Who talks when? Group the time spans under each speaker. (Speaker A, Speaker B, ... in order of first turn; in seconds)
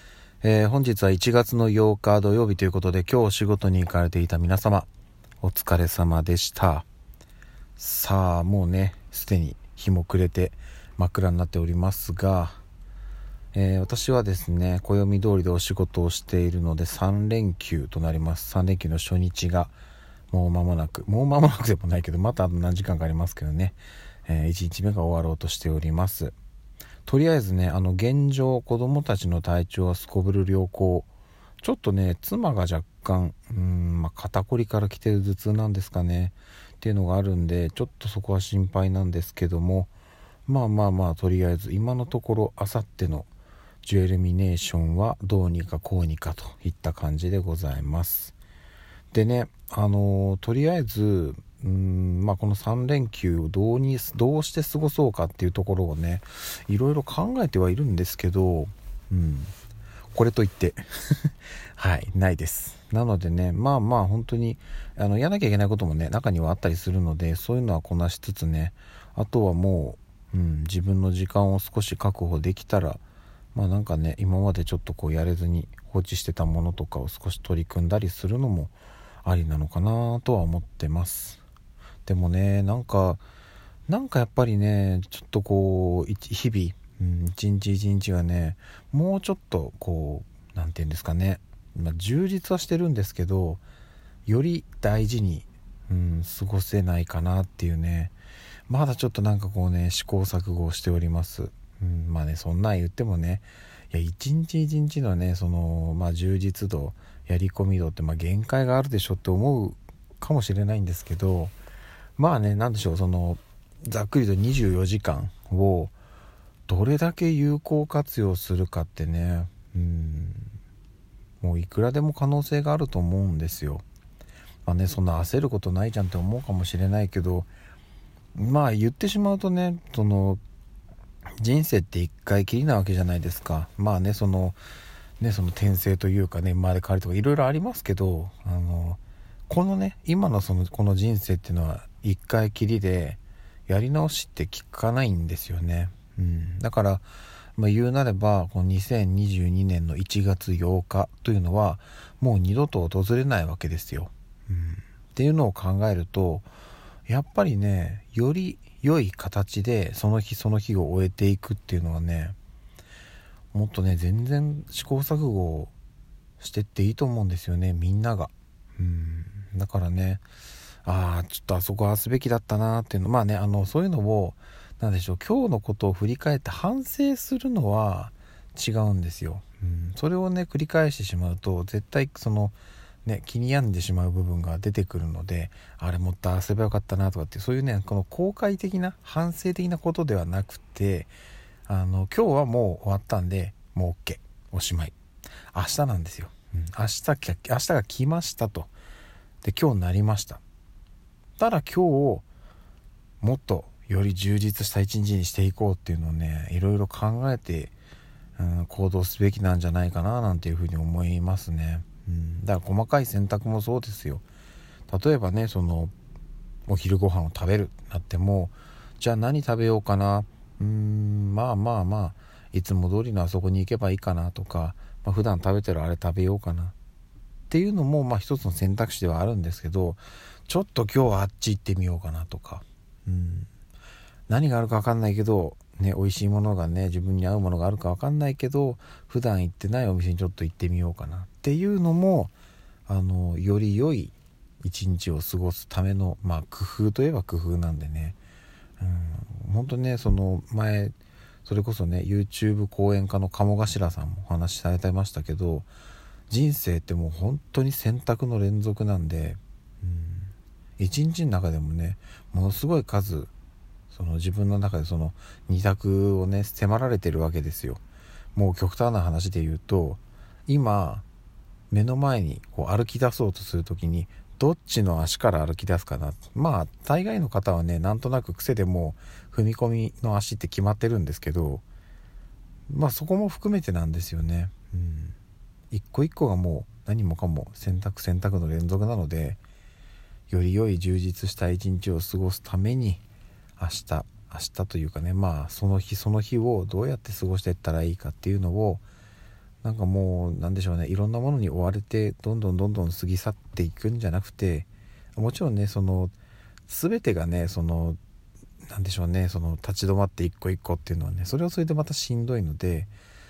Speaker A: 0.4-4.9, 5.4-6.9, 7.8-12.6, 13.5-19.7, 20.3-26.4, 27.1-31.1, 31.6-39.9, 40.5-43.3, 43.8-48.4, 49.1-59.5, 60.1-73.0, 73.5-81.4, 82.1-83.2, 83.9-93.6, 94.3-98.1, 98.7-111.5, 112.2-115.9, 116.7-120.5, 121.4-123.8, 124.7-127.5, 128.3-130.4, 131.4-134.6, 135.2-156.5, 157.1-162.4, 163.5-165.7, 166.4-170.2, 170.8-191.1, 191.7-194.9, 195.5-198.7, 199.4-200.4, 201.4-202.3, 203.2-207.7, 208.4-214.2, 214.9-215.9, 216.7-226.8, 227.5-233.5, 234.3-242.3, 242.9-248.2, 248.8-250.9, 251.4-255.7, 256.3-263.3, 263.9-267.8, 268.4-271.1, 271.7-281.6, 282.7-285.1, 285.7-289.4, 290.3-293.0, 293.6-298.8, 299.6-306.1, 306.7-308.0, 308.6-312.9